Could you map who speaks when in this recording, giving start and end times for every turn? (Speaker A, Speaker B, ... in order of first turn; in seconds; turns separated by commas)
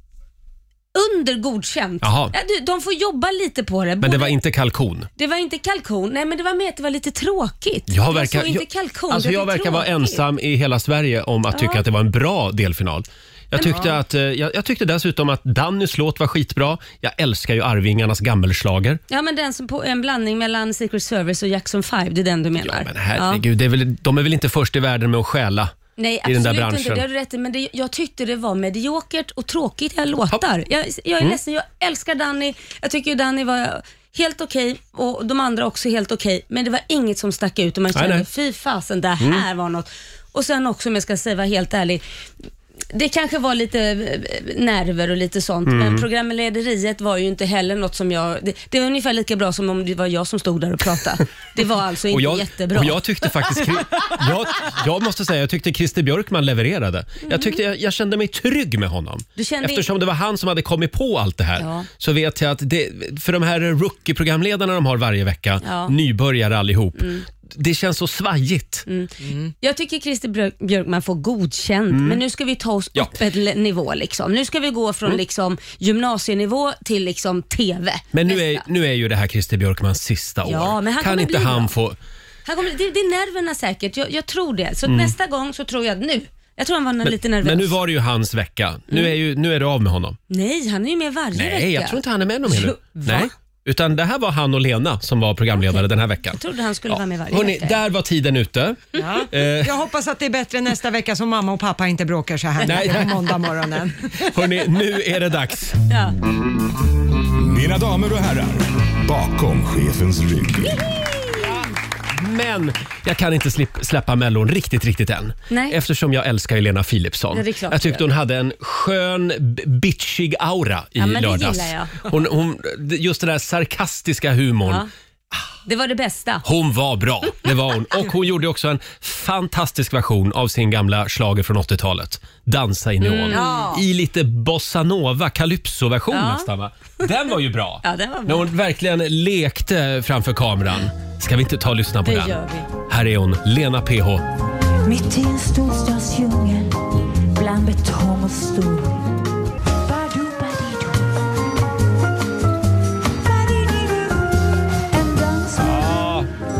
Speaker A: 0.9-4.3, Speaker B: 2.0-2.3, Speaker B: 4.0-5.1, Speaker A: 5.2-10.2, Speaker B: 7.9-19.0, Speaker A: 11.5-11.8, Speaker A: 13.6-13.9, Speaker A: 19.1-23.4, Speaker B: 22.6-27.0, Speaker A: 26.0-42.0, Speaker B: 37.9-38.2, Speaker A: 42.9-53.0, Speaker B: 45.6-46.0, Speaker B: 52.1-68.8, Speaker A: 57.2-57.5, Speaker A: 59.4-59.9, Speaker A: 61.6-61.9, Speaker A: 65.6-65.9, Speaker A: 67.0-67.2, Speaker A: 68.9-78.6, Speaker C: 69.2-69.5, Speaker B: 71.9-72.2, Speaker B: 78.1-82.0, Speaker A: 80.4-81.7, Speaker A: 82.5-87.8, Speaker B: 84.8-85.1, Speaker B: 87.0-90.2, Speaker A: 90.3-93.3, Speaker B: 91.3-99.7, Speaker A: 95.7-97.8, Speaker C: 99.0-104.5, Speaker B: 102.6-103.4, Speaker B: 104.2-105.8, Speaker A: 105.9-106.1, Speaker D: 107.4-111.0, Speaker A: 110.8-111.6, Speaker B: 111.3-124.8, Speaker A: 115.5-115.8, Speaker A: 117.3-118.0, Speaker A: 121.0-121.9, Speaker A: 125.7-126.4, Speaker B: 126.4-144.2, Speaker A: 133.0-133.8, Speaker C: 133.3-133.7, Speaker A: 136.1-136.5, Speaker A: 137.8-138.5, Speaker A: 142.0-142.7, Speaker E: 144.8-149.1, Speaker E: 149.8-151.2, Speaker E: 153.2-154.1, Speaker E: 154.9-156.0, Speaker B: 155.6-156.3